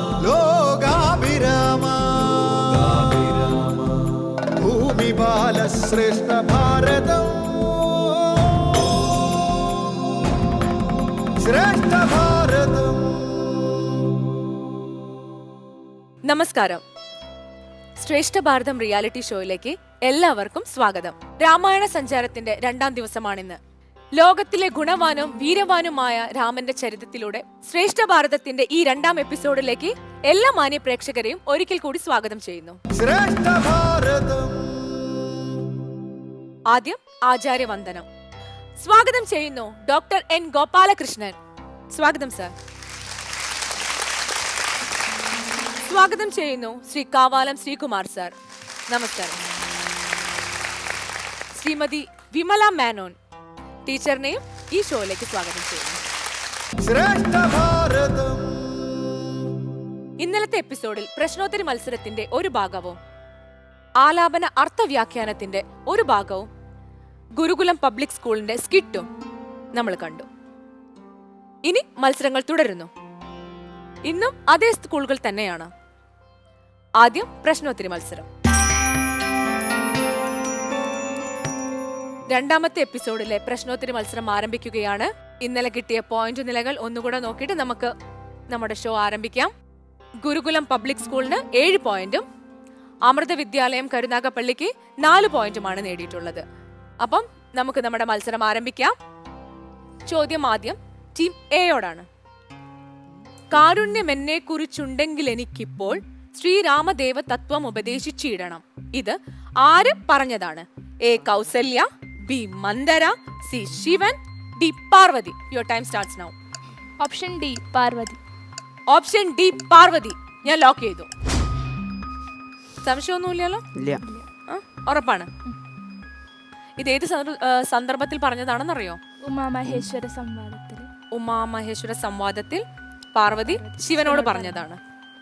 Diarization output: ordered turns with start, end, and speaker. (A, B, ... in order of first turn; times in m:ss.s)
0:00.2-0:03.8 A
0:04.6-0:08.0 A
0:11.4-0:13.1 A
0:16.2-0:16.8 B
0:18.0-0:23.6 B
0:24.2-0:32.8 B
0:32.9-0:34.7 A
0:36.7-0:38.1 B
0:38.8-0:41.3 B
0:41.9-0:42.5 B
0:45.9-0:48.3 B
0:48.9-0:49.4 B
0:51.5-0:53.2 B
0:53.8-0:56.0 B
0:56.8-0:58.6 A
1:00.2-1:03.0 B
1:04.0-1:06.5 B
1:07.4-1:09.0 B
1:09.7-1:10.2 B
1:11.6-1:12.9 B
1:14.0-1:15.7 B
1:17.0-1:18.3 B
1:22.3-1:27.9 B
1:28.5-1:29.5 B
1:30.2-1:32.2 B
1:33.1-1:36.4 B
1:37.0-1:38.9 B
1:40.1-1:42.1 B
1:43.5-1:56.3 B
1:57.0-1:58.2 C
1:58.9-2:01.1 B
2:02.8-2:03.6 B
2:04.5-2:05.3 B
2:06.8-2:09.0 B
2:09.2-2:10.9 C
2:11.1-2:12.6 B
2:13.1-2:14.8 B
2:13.5-2:14.6 C